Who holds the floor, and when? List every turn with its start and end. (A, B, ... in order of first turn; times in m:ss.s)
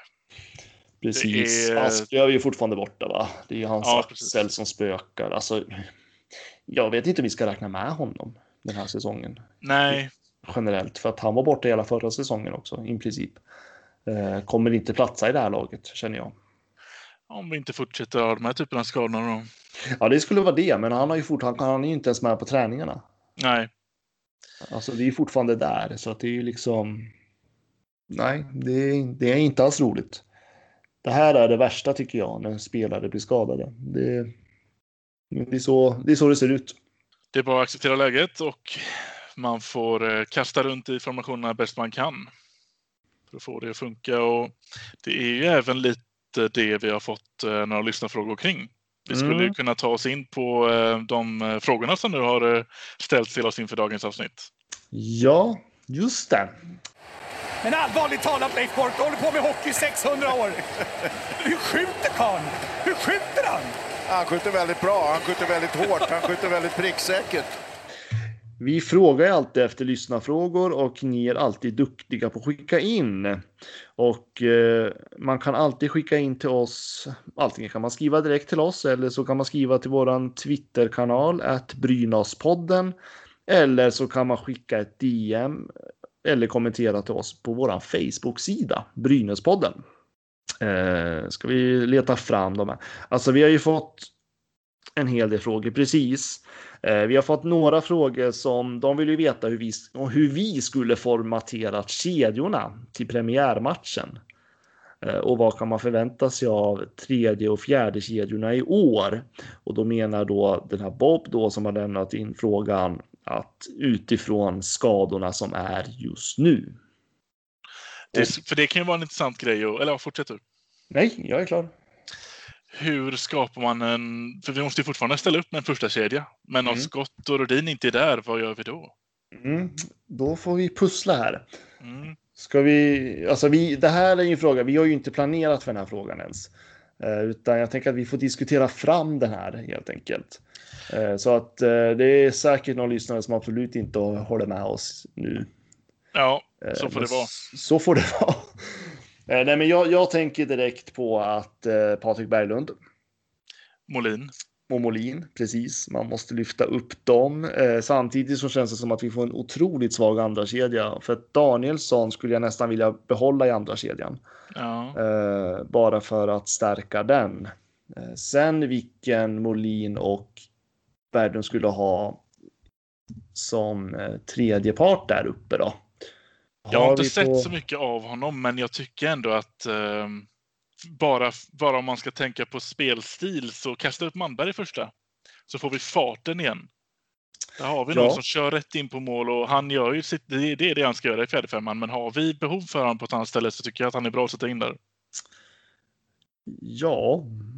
0:01.0-0:05.9 A
0:01.1-0:02.1 B
0:03.8-0:04.3 B
0:06.7-0:13.4 A
0:09.6-0:10.1 B
0:14.0-0:16.3 A
0:17.3-0:19.5 B
0:20.0-0:23.0 A
0:23.4-0:23.7 B
0:24.6-0:27.1 A
0:28.1-0:30.2 A
0:31.0-0:34.3 A
0:35.3-0:36.8 A
0:37.3-0:42.3 B
0:43.3-0:54.5 B
0:49.1-0:49.5 A
0:54.9-0:56.5 A
0:57.6-1:00.6 C
1:01.4-1:03.7 C
1:04.1-1:07.5 D
1:08.6-1:13.4 A
1:14.0-1:23.0 A
1:23.5-1:25.7 A
1:26.2-1:29.8 A
1:30.6-1:34.1 A
1:35.0-1:44.2 A
1:45.0-1:56.8 A
1:58.1-2:00.4 B
2:00.9-2:01.7 A
2:02.7-2:08.9 B
2:06.6-2:06.9 A
2:09.3-2:11.4 A
2:11.8-2:12.2 B
2:12.4-2:25.5 A
2:26.1-2:27.3 B
2:26.6-2:32.7 A
2:33.9-2:34.3 B
2:34.7-2:44.2 A
2:44.5-2:45.0 B
2:44.9-2:50.4 A
2:51.1-2:52.2 A
2:53.3-2:55.8 A
2:56.6-2:57.5 A
2:56.7-3:00.3 B
3:00.8-3:04.9 B
3:05.5-3:06.7 B
3:07.6-3:14.8 B
3:07.9-3:08.2 A
3:16.5-3:17.3 A